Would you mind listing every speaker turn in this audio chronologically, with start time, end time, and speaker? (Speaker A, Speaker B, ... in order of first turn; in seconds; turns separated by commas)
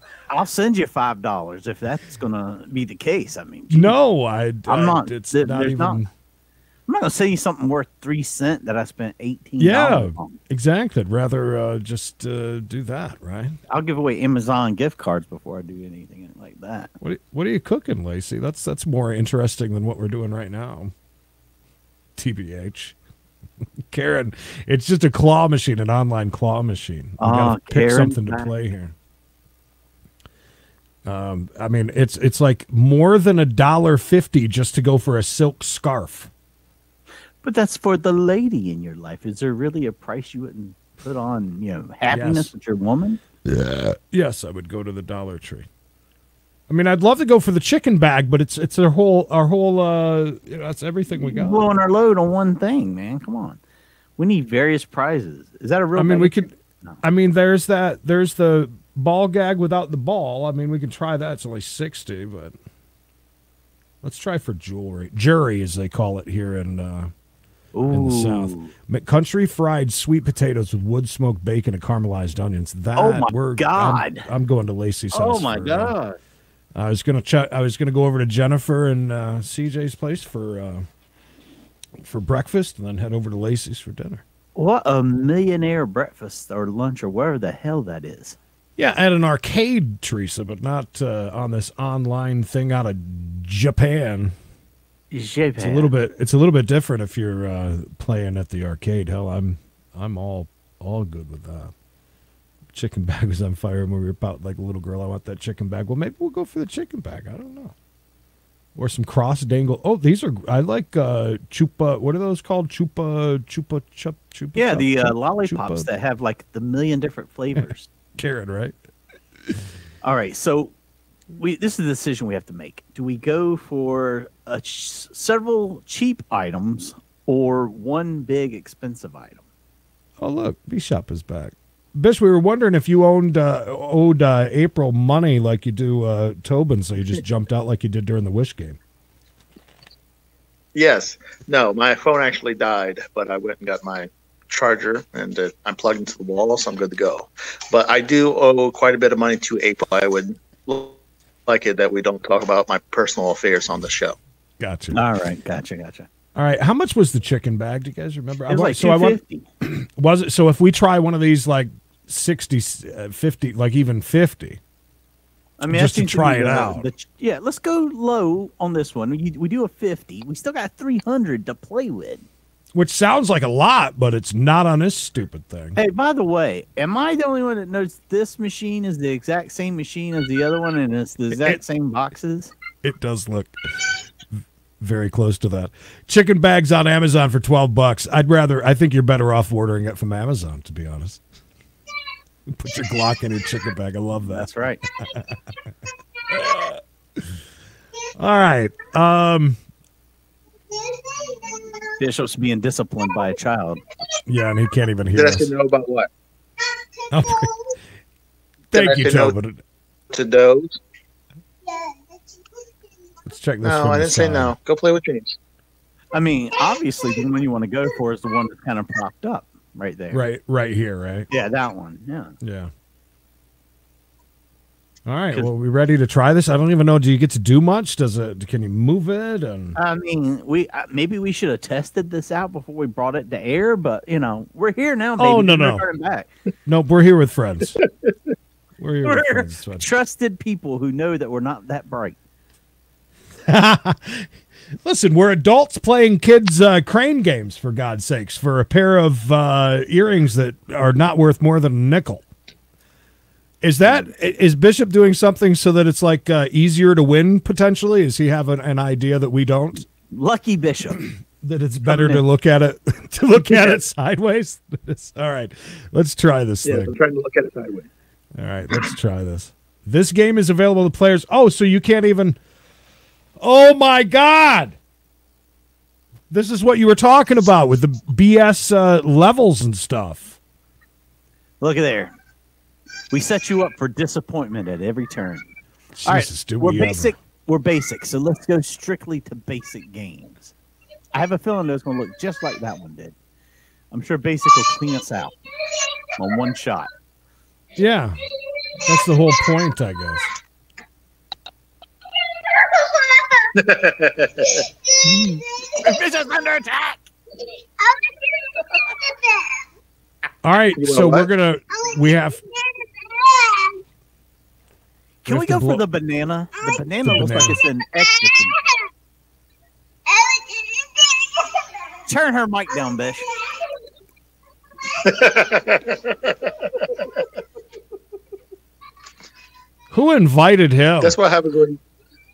Speaker A: 0.3-4.0, Speaker B: 3.7-6.1, Speaker A: 4.7-6.0, Speaker A: 6.9-10.4, Speaker B: 9.6-13.6, Speaker A: 13.7-16.9, Speaker B: 17.0-20.9, Speaker B: 22.2-22.9, Speaker B: 23.9-28.9, Speaker A: 27.2-28.5, Speaker B: 31.1-36.3, Speaker A: 37.4-43.2, Speaker B: 42.1-42.5, Speaker B: 43.5-45.7, Speaker B: 46.7-51.7, Speaker A: 51.2-53.6, Speaker A: 54.2-57.0, Speaker B: 56.0-62.6, Speaker B: 64.0-67.1, Speaker A: 67.7-68.7, Speaker B: 67.9-76.0, Speaker A: 73.0-74.3, Speaker A: 75.1-76.2, Speaker B: 76.8-80.9, Speaker B: 82.0-84.2, Speaker A: 84.5-88.4, Speaker B: 88.8-94.3, Speaker A: 95.1-95.9, Speaker B: 95.6-101.7, Speaker B: 102.7-107.8, Speaker B: 108.8-115.9, Speaker A: 114.5-117.9, Speaker B: 117.6-118.8, Speaker A: 120.0-120.7, Speaker A: 121.4-129.4, Speaker B: 130.2-138.8, Speaker C: 140.8-154.2, Speaker B: 154.6-155.0, Speaker A: 154.9-156.1, Speaker B: 156.3-164.6, Speaker A: 158.5-159.4, Speaker A: 165.6-172.2, Speaker B: 165.7-166.9, Speaker B: 172.7-175.8, Speaker A: 175.8-182.5, Speaker B: 181.3-181.6, Speaker B: 182.8-184.0, Speaker B: 184.8-191.2, Speaker B: 192.5-195.4, Speaker A: 194.2-194.8, Speaker B: 196.3-197.3, Speaker B: 198.2-199.6, Speaker A: 202.0-203.8, Speaker B: 204.3-205.5, Speaker C: 205.2-206.1, Speaker B: 207.1-207.7, Speaker B: 208.7-209.6, Speaker C: 208.7-209.3, Speaker C: 210.1-210.8, Speaker B: 213.2-214.5, Speaker C: 213.6-215.4, Speaker A: 216.1-220.2, Speaker B: 220.1-221.3, Speaker A: 221.3-222.3, Speaker B: 222.4-222.7, Speaker B: 225.1-229.8, Speaker A: 229.8-236.3, Speaker B: 235.2-235.8, Speaker B: 236.7-237.8, Speaker B: 238.8-239.9, Speaker A: 239.0-242.2, Speaker B: 243.5-244.3, Speaker B: 244.8-252.2, Speaker B: 253.6-259.9, Speaker A: 260.1-261.1, Speaker B: 261.4-266.9, Speaker A: 261.9-262.2, Speaker C: 266.6-267.9, Speaker B: 268.4-272.4, Speaker B: 273.4-274.8, Speaker B: 276.3-280.4, Speaker A: 281.6-282.1, Speaker A: 283.1-285.5, Speaker B: 286.0-287.1, Speaker A: 286.1-290.5, Speaker A: 291.1-293.1, Speaker A: 293.9-295.4, Speaker A: 296.2-296.9, Speaker B: 297.8-298.2, Speaker B: 298.8-300.3, Speaker C: 303.5-304.6, Speaker A: 305.0-307.0, Speaker B: 310.4-312.4, Speaker C: 310.8-311.3, Speaker A: 315.2-318.6, Speaker B: 315.3-315.8, Speaker B: 317.0-317.6, Speaker A: 322.1-323.3, Speaker C: 325.0-326.4, Speaker B: 329.9-331.2, Speaker C: 331.0-331.8